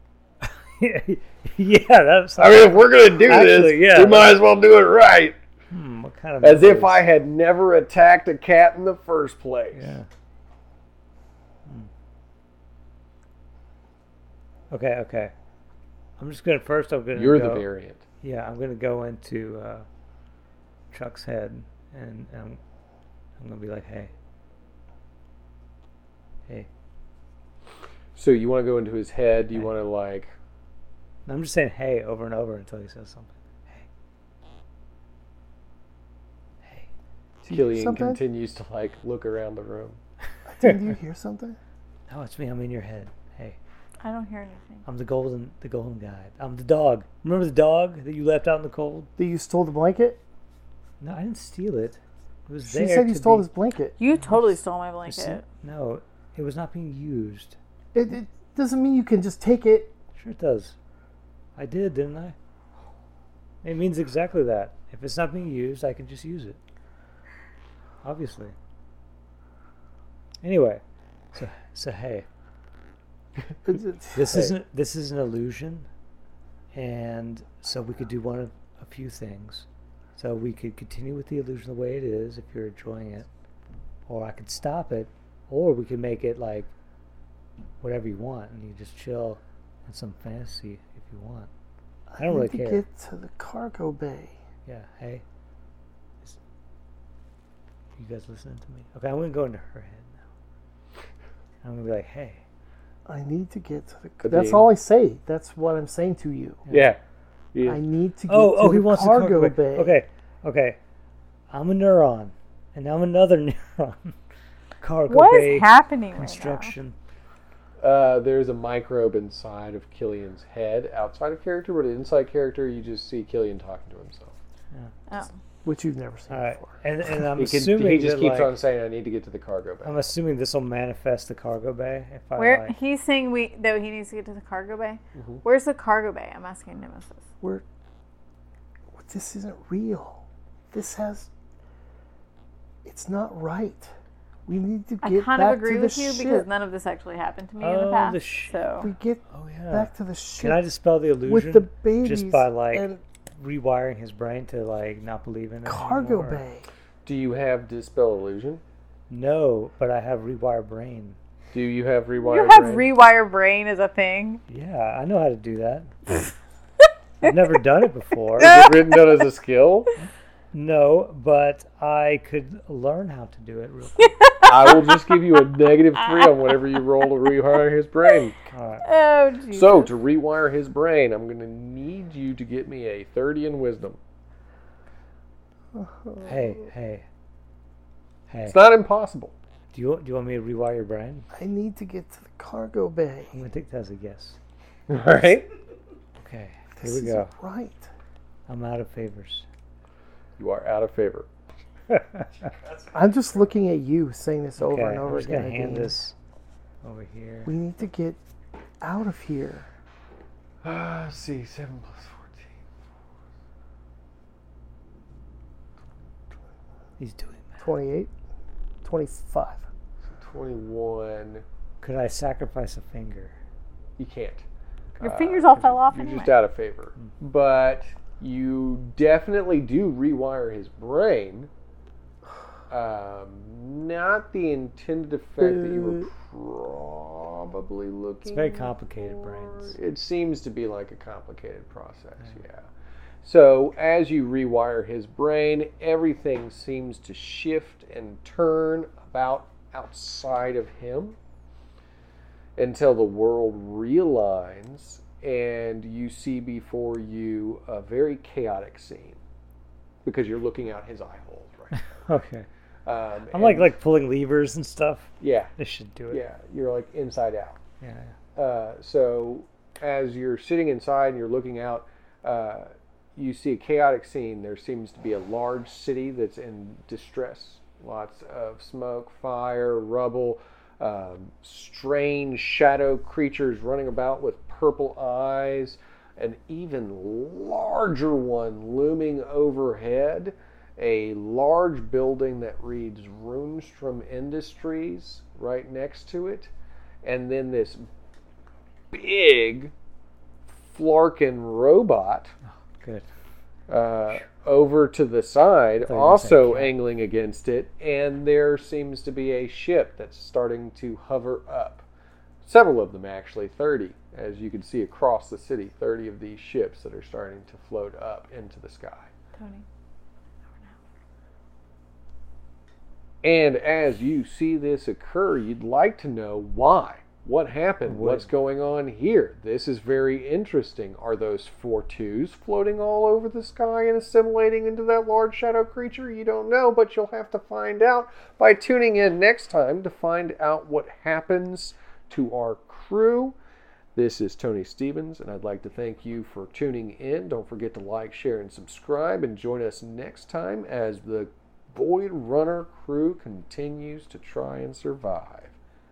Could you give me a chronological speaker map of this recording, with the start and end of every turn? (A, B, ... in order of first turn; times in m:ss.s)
0:00.4-0:04.4 A
0:02.4-0:05.4 B
0:05.7-0:07.0 A
0:06.4-0:09.9 B
0:09.7-0:10.1 A
0:14.7-0:15.3 A
0:16.2-0:17.7 A
0:17.1-0:18.0 B
0:18.2-0:19.8 A
0:20.9-0:22.6 A
0:23.4-0:24.1 A
0:28.1-0:30.3 B
0:31.2-0:33.9 A
0:36.6-0:36.9 A
0:37.4-0:38.2 C
0:37.5-0:40.0 B
0:40.5-0:41.6 C
0:42.1-0:43.6 A
0:44.0-0:44.8 D
0:44.8-0:49.1 A
0:49.2-0:50.2 C
0:51.0-0:53.5 A
0:52.6-0:54.0 C
0:54.0-0:55.4 D
0:54.2-0:57.6 A
0:57.9-0:59.9 C
1:00.2-1:00.7 A
1:01.6-1:02.4 A
1:03.6-1:06.6 A
1:08.0-1:08.5 A
1:10.4-1:10.8 A
1:11.3-1:12.3 A
1:13.6-1:14.5 C
1:14.1-1:15.9 A
1:16.7-1:19.6 A
1:20.2-1:23.3 A
1:24.1-1:26.7 A
1:27.8-1:31.5 A
1:32.1-1:32.8 A
1:32.1-1:34.4 C
1:34.6-1:35.2 A
1:38.0-1:40.2 A
1:41.6-1:42.4 A
1:43.0-1:46.6 C
1:44.2-1:44.6 B
1:46.7-1:47.0 B
1:47.5-1:47.8 B
1:47.6-1:50.0 C
1:48.3-1:50.8 A
1:51.5-1:54.2 A
1:54.8-1:56.9 A
1:55.1-1:56.7 D
1:57.8-2:04.3 B
2:05.6-2:06.7 C
2:06.3-2:08.6 A
2:07.4-2:10.0 B
2:09.8-2:12.7 A
2:12.4-2:17.2 D
2:15.1-2:15.4 B
2:18.9-2:21.3 C
2:22.8-2:23.9 C
2:24.5-2:26.5 C
2:25.0-2:28.9 D
2:27.6-2:28.7 A
2:28.8-2:30.6 C
2:29.3-2:36.4 A
2:31.2-2:33.0 C
2:35.6-2:36.7 C
2:37.0-2:38.6 B
2:39.1-2:41.2 A
2:41.5-2:42.9 B
2:42.2-2:44.4 D
2:44.5-2:46.3 A
2:47.2-2:48.7 A
2:48.4-2:49.9 B
2:50.5-2:54.3 A
2:54.0-2:54.9 D
2:54.4-2:58.4 B
2:58.5-2:58.8 A
2:58.8-2:59.9 D
2:59.5-3:04.0 B
3:05.7-3:06.4 C
3:06.2-3:07.0 A
3:08.3-3:08.6 A
3:08.4-3:09.3 B
3:09.7-3:11.2 A
3:11.3-3:13.4 C
3:13.3-3:14.4 A
3:14.9-3:15.5 B
3:16.2-3:17.3 A
3:16.8-3:17.9 C
3:18.5-3:19.4 A
3:20.4-3:21.3 B
3:21.9-3:22.5 A
3:22.6-3:22.9 B
3:22.9-3:25.9 C
3:24.6-3:26.1 A
3:26.8-3:27.5 A
3:27.4-3:28.2 C
3:28.8-3:29.7 C
3:30.6-3:32.5 B
3:37.0-3:37.6 A
3:37.6-3:38.1 C
3:38.8-3:39.6 C
3:40.1-3:41.4 B
3:41.8-3:43.3 A
3:44.0-3:44.4 B
3:45.0-3:51.5 B
3:45.0-3:46.3 D
3:52.7-4:02.7 B
3:58.2-3:59.8 A
4:03.2-4:11.2 B
4:12.6-4:19.2 B
4:20.0-4:21.8 B
4:21.9-4:22.4 A
4:22.8-4:23.7 B
4:23.3-4:26.2 A
4:25.2-4:25.5 B
4:26.1-4:27.6 B
4:27.8-4:28.2 A
4:28.4-4:56.5 B
4:57.0-4:57.9 B
4:58.9-4:59.7 B
5:00.5-5:02.3 B
5:02.8-5:03.0 A
5:03.7-5:11.8 B
5:05.8-5:06.8 A
5:12.4-5:19.1 B
5:19.4-5:19.6 D
5:23.2-5:43.3 B
5:27.8-5:28.3 A
5:43.9-5:55.6 B